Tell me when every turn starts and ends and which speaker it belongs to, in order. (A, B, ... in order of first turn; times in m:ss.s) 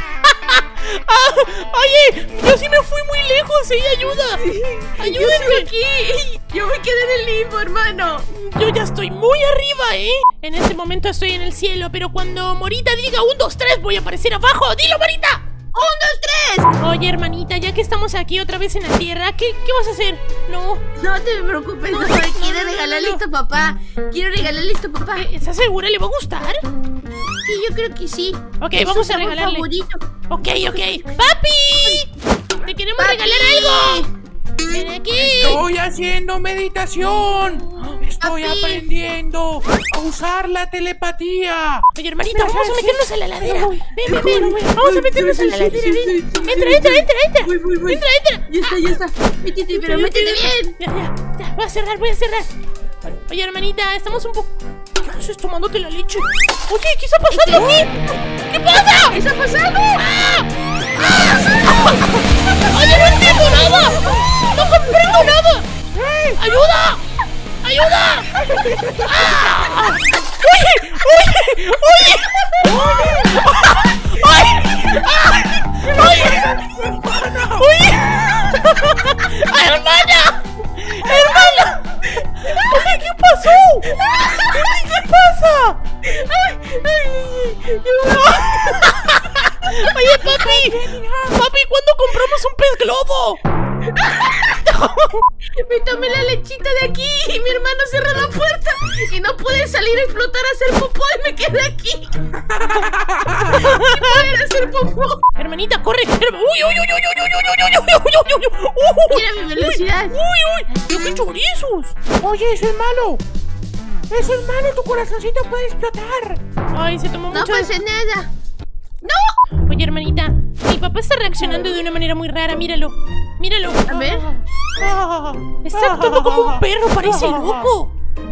0:00.2-0:04.4 A
0:04.4-0:08.3 B
0:05.0-0:05.7 A
0:08.3-0:15.4 A
0:15.7-0:16.7 B
0:16.8-0:20.8 A
0:21.0-0:25.3 B
0:21.9-0:23.2 A
0:25.2-0:26.6 A
0:27.5-0:31.0 B
0:28.6-0:29.7 A
0:30.3-0:32.1 A
0:32.6-0:34.0 A
0:33.0-0:34.1 B
0:34.7-0:35.6 A
0:35.2-0:44.7 C
0:38.2-0:38.8 B
0:42.0-0:49.0 A
0:44.0-0:50.8 B
0:49.7-0:52.5 A
0:53.3-0:57.9 A
0:57.3-0:57.9 B
0:58.5-0:59.2 A
0:59.1-1:00.1 B
1:00.0-1:00.5 A
1:01.0-1:02.0 A
1:02.7-1:05.7 A
1:02.7-1:04.1 C
1:05.9-1:06.4 C
1:06.4-1:07.0 A
1:07.6-1:08.4 A
1:08.3-1:09.3 C
1:09.0-1:16.6 A
1:12.6-1:14.9 C
1:15.5-1:17.7 C
1:17.6-1:25.8 A
1:21.0-1:21.6 C
1:23.9-1:24.8 B
1:26.0-1:29.0 B
1:28.1-1:30.8 A
1:30.1-1:31.4 C
1:31.3-1:33.4 A
1:33.9-1:34.6 B
1:34.6-1:35.2 A
1:35.5-1:42.4 B
1:42.5-1:43.7 C
1:43.4-1:45.2 B
1:43.5-1:44.2 A
1:45.4-1:52.0 A
1:49.1-1:50.2 B
1:52.2-1:53.2 C
1:54.1-1:56.4 C
1:56.7-1:57.7 A
1:57.3-1:58.3 B
1:59.0-1:59.3 B
1:59.6-2:04.1 A
2:03.9-2:04.3 B
2:04.4-2:07.7 C
2:05.6-2:07.9 A